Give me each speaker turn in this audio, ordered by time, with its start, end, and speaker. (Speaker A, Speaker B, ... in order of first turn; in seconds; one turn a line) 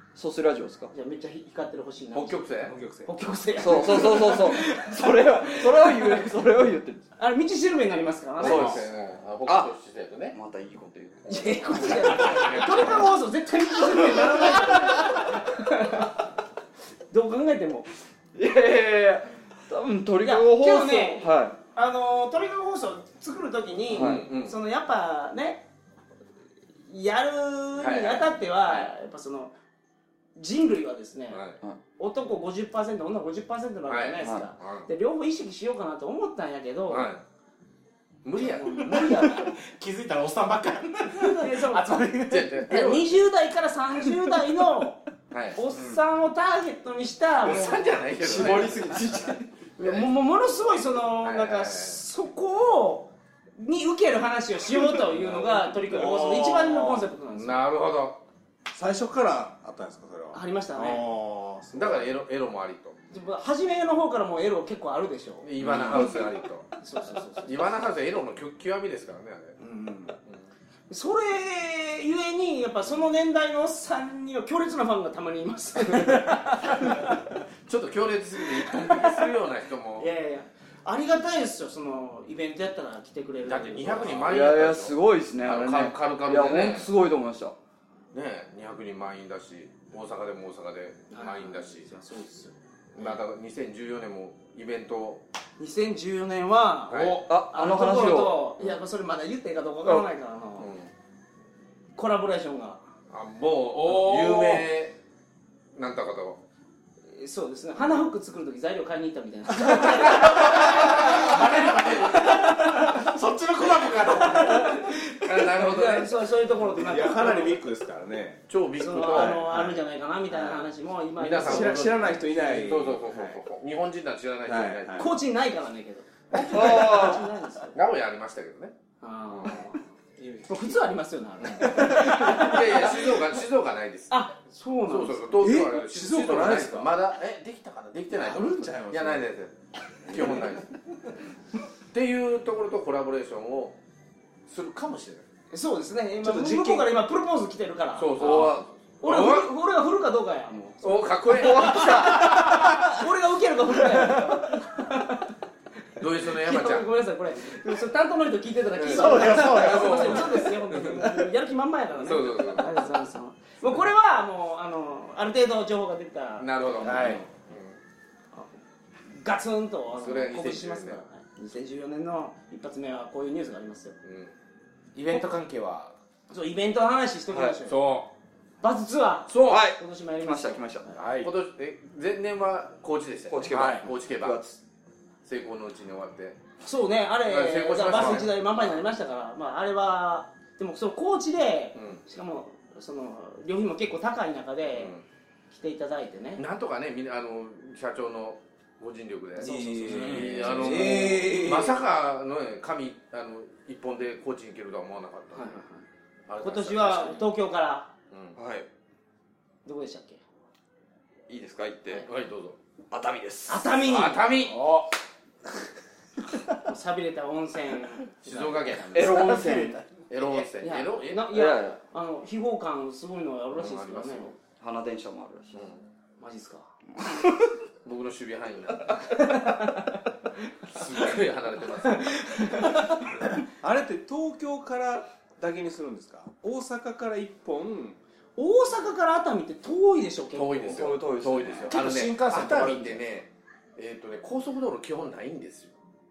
Speaker A: 0.1-0.9
Speaker B: 0.9-2.5
Speaker C: 2.1-2.8
Speaker D: 2.6-3.6
Speaker B: 3.0-6.3
Speaker A: 3.6-7.1
Speaker B: 7.2-8.8
Speaker C: 8.4-10.3
Speaker A: 8.4-8.9
Speaker A: 9.4-9.7
Speaker A: 10.3-13.0
Speaker B: 11.3-16.2
Speaker C: 12.1-13.1
Speaker A: 14.2-15.2
Speaker B: 17.1-17.9
Speaker A: 18.3-21.6
Speaker B: 20.2-25.6
Speaker A: 23.9-24.3
Speaker C: 23.9-24.6
Speaker B: 26.9-29.5
Speaker C: 27.8-28.9
Speaker B: 30.4-31.4
Speaker C: 31.3-31.6
Speaker B: 32.0-37.1
Speaker C: 33.9-34.9
Speaker C: 36.9-37.2
Speaker C: 38.2-39.4
Speaker B: 38.4-39.5
Speaker E: 38.8-42.9
Speaker B: 41.1-45.0
Speaker C: 42.3-43.2
Speaker E: 44.0-44.4
Speaker C: 45.3-45.6
Speaker B: 45.5-48.8
Speaker C: 47.4-49.0
Speaker A: 48.2-49.4
Speaker B: 49.8-57.7
Speaker C: 49.8-50.1
Speaker C: 51.2-52.0
Speaker D: 55.4-57.1
Speaker C: 57.3-58.2
Speaker D: 58.7-62.1
Speaker B: 60.3-61.2
Speaker C: 61.7-63.0
Speaker B: 63.1-67.9
Speaker C: 65.4-66.7
Speaker C: 67.4-69.6
Speaker B: 69.6-70.0
Speaker D: 69.8-70.1
Speaker B: 70.9-77.1
Speaker C: 77.7-80.1
Speaker B: 78.7-79.1
Speaker B: 80.0-84.3
Speaker C: 83.5-86.9
Speaker A: 84.2-87.5
Speaker C: 88.1-91.9
Speaker B: 91.1-92.5
Speaker C: 92.9-95.2
Speaker B: 95.6-100.7
Speaker C: 96.9-97.2
Speaker E: 96.9-97.2
Speaker A: 97.2-98.5
Speaker C: 100.6-100.9
Speaker B: 102.0-102.8
Speaker C: 103.1-105.0
Speaker E: 103.7-104.7
Speaker C: 105.7-106.4
Speaker B: 107.1-113.0
Speaker E: 110.3-114.8
Speaker B: 114.0-117.7
Speaker C: 115.2-116.2
Speaker D: 116.6-118.5
Speaker C: 118.5-119.5
Speaker B: 118.8-122.0
Speaker D: 119.0-119.8
Speaker C: 121.2-125.1
Speaker D: 121.4-123.2
Speaker A: 124.5-124.8
Speaker D: 124.5-125.1
Speaker B: 125.0-127.8
Speaker A: 126.3-127.2
Speaker C: 127.7-128.8
Speaker B: 129.0-129.8
Speaker C: 129.3-129.6
Speaker D: 130.2-130.8
Speaker B: 130.5-133.0
Speaker C: 131.4-134.2
Speaker B: 134.1-135.5
Speaker C: 134.9-139.5
Speaker D: 135.4-137.0
Speaker D: 138.2-139.2
Speaker C: 140.1-140.7
Speaker D: 140.1-140.5
Speaker C: 141.9-143.8
Speaker C: 144.5-145.2
Speaker B: 145.5-148.4
Speaker D: 146.2-146.9
Speaker E: 146.4-146.7
Speaker C: 147.9-149.5
Speaker A: 148.2-148.7
Speaker B: 149.0-155.3
Speaker C: 150.8-152.2
Speaker A: 151.4-152.6
Speaker C: 156.0-156.9
Speaker B: 156.3-167.2
Speaker C: 158.7-161.1
Speaker E: 158.9-160.4
Speaker C: 162.0-162.7
Speaker C: 166.4-167.8
Speaker E: 166.8-167.2
Speaker B: 169.1-174.0
Speaker C: 169.9-171.0
Speaker C: 174.0-174.3
Speaker E: 174.9-175.9
Speaker B: 176.3-177.8
Speaker A: 177.3-177.6
Speaker C: 177.7-178.1
Speaker B: 178.6-181.0
Speaker C: 179.3-179.6
Speaker A: 179.4-181.2
Speaker C: 181.0-184.4
Speaker A: 183.3-184.6
Speaker E: 183.5-183.8
Speaker C: 185.2-186.4
Speaker B: 186.6-195.0
Speaker C: 187.2-188.8
Speaker C: 191.7-192.0
Speaker C: 194.7-195.0
Speaker B: 195.5-196.4
Speaker C: 196.3-205.6
Speaker B: 199.4-201.4
Speaker D: 199.4-201.8
Speaker B: 205.3-205.8
Speaker C: 206.3-207.3
Speaker B: 206.4-207.9
Speaker C: 208.1-208.4
Speaker A: 208.4-208.7
Speaker B: 209.6-210.2
Speaker A: 211.3-212.1
Speaker C: 211.9-212.6
Speaker A: 212.9-213.7
Speaker B: 213.5-214.2
Speaker C: 213.8-214.6
Speaker E: 214.3-214.9
Speaker B: 216.6-219.7
Speaker C: 218.2-219.3
Speaker A: 218.9-219.8
Speaker E: 219.1-219.6
Speaker C: 220.1-221.3
Speaker B: 220.6-224.3
Speaker A: 221.3-221.8
Speaker C: 223.5-224.3
Speaker A: 224.6-225.6
Speaker C: 225.5-225.8
Speaker B: 226.2-226.7
Speaker A: 227.0-227.5
Speaker C: 227.8-229.0
Speaker B: 229.1-229.8
Speaker C: 230.7-232.5
Speaker B: 231.9-232.8
Speaker D: 233.6-238.0
Speaker B: 238.4-240.9
Speaker C: 240.3-245.7
Speaker A: 240.7-241.7
Speaker E: 241.7-243.0
Speaker B: 241.9-242.7